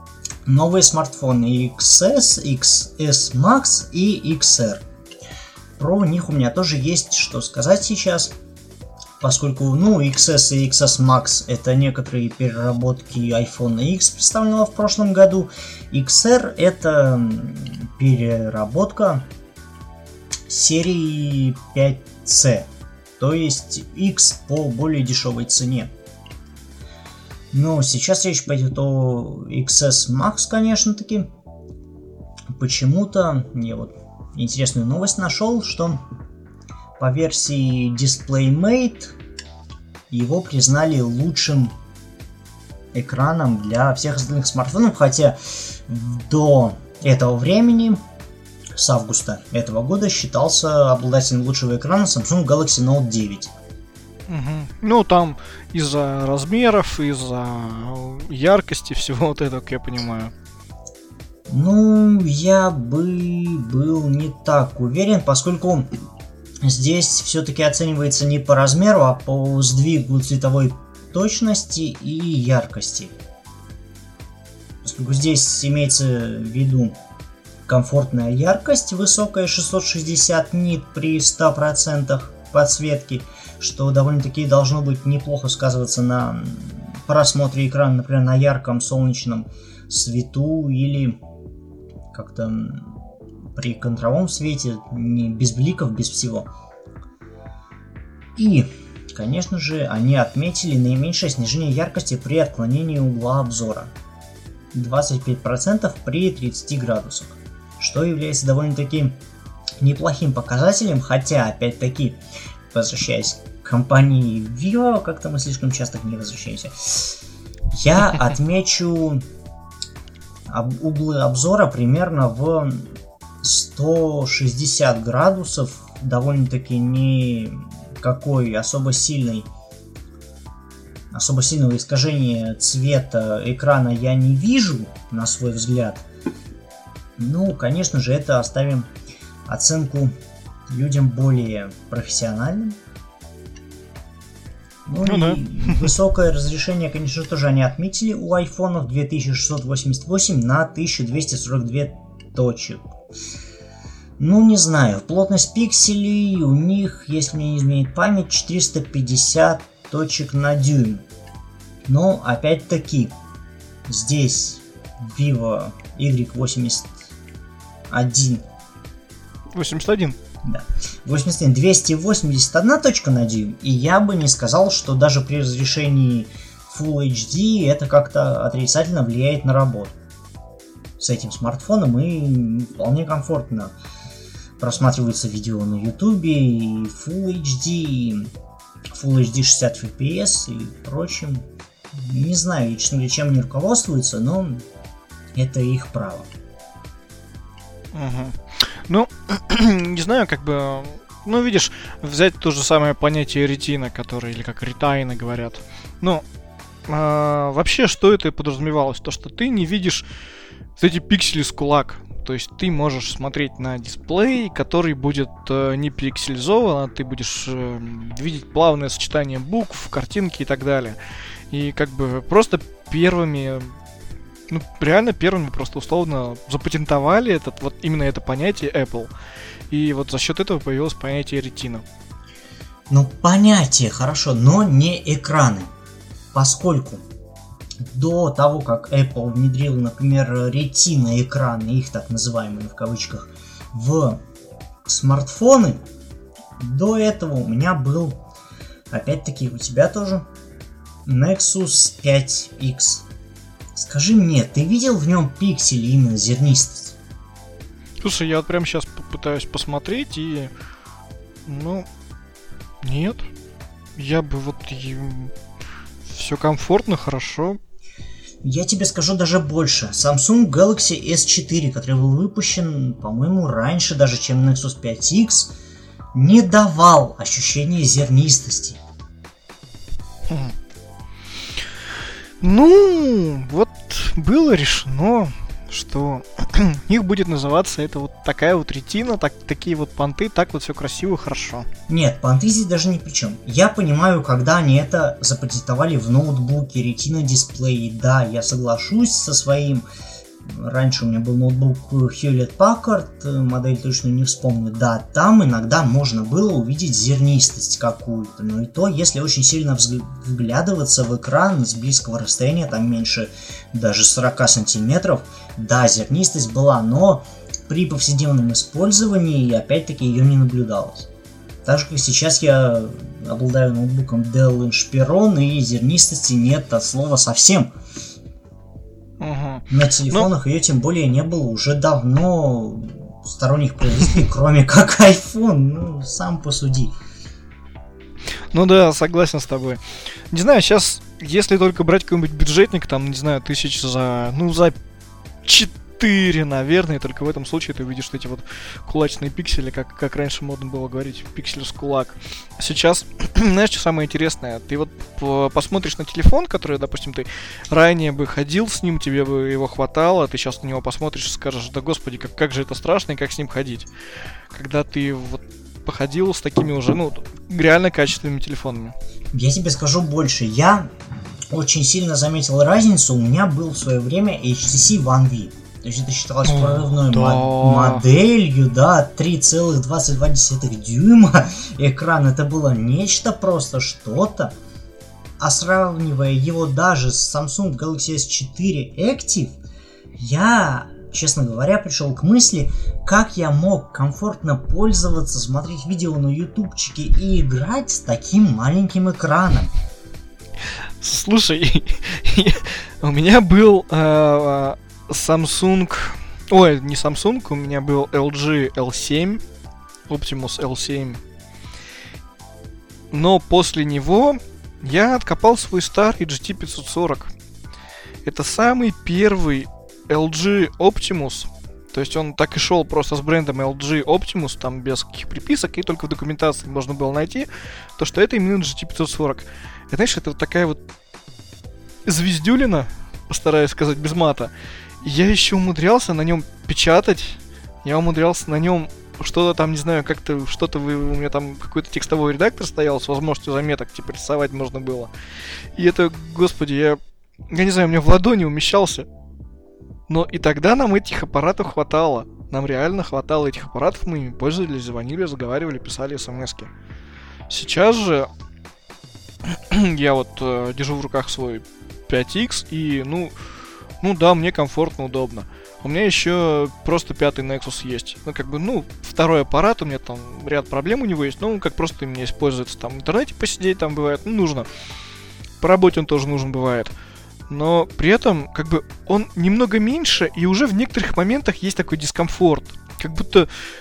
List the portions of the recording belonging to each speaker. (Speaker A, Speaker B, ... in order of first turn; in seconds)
Speaker A: 0.5-4.8, 5.8-8.3, 9.2-19.3, 20.5-22.7, 23.2-25.9, 27.5-31.3, 32.5-36.0, 37.0-39.1, 40.1-41.7, 42.9-48.0, 48.8-53.5, 61.5-65.9, 66.6-73.1, 74.8-77.0, 77.7-91.2, 92.1-93.0, 93.5-96.5, 98.4-103.9, 104.7-109.2, 109.8-112.2, 112.7-117.2, 117.7-119.2, 120.5-122.9, 123.4-129.5, 131.1-136.1, 137.2-138.9, 139.5-140.1, 140.7-142.8, 144.9-152.8, 154.2-161.0, 161.9-163.1, 163.9-167.0, 167.9-168.4, 170.4-179.9, 181.0-183.7, 184.6-188.3, 188.9-194.7, 195.3-196.3, 232.9-235.7, 236.3-237.0, 237.8-244.2, 244.9-245.8, 246.6-248.2, 248.9-250.2, 251.1-253.1, 253.8-257.0, 268.4-275.5, 276.1-278.8, 291.9-299.9, 300.4-321.1, 321.6-327.7, 329.7-336.9, 369.3-370.9, 371.5-384.5, 385.4-389.6, 390.2-399.7
Speaker B: 54.3-60.3, 145.0-145.9, 169.5-170.2, 197.9-206.2, 206.9-210.1, 210.8-221.0, 221.5-223.8, 224.5-229.1, 229.7-231.8, 258.0-260.5, 261.5-261.9, 262.8-263.3, 264.0-265.3, 266.1-267.6, 280.3-280.6, 282.4-291.7, 329.2-330.3, 338.5-344.8, 345.4-363.9, 364.5-368.9, 376.5-378.1, 401.0-409.4, 410.1-411.2, 413.1-417.3, 418.2-430.8, 432.1-445.1, 445.8-449.1, 450.1-456.7, 457.5-458.3, 459.4-463.3, 464.0-474.7, 475.6-476.9, 477.5-483.5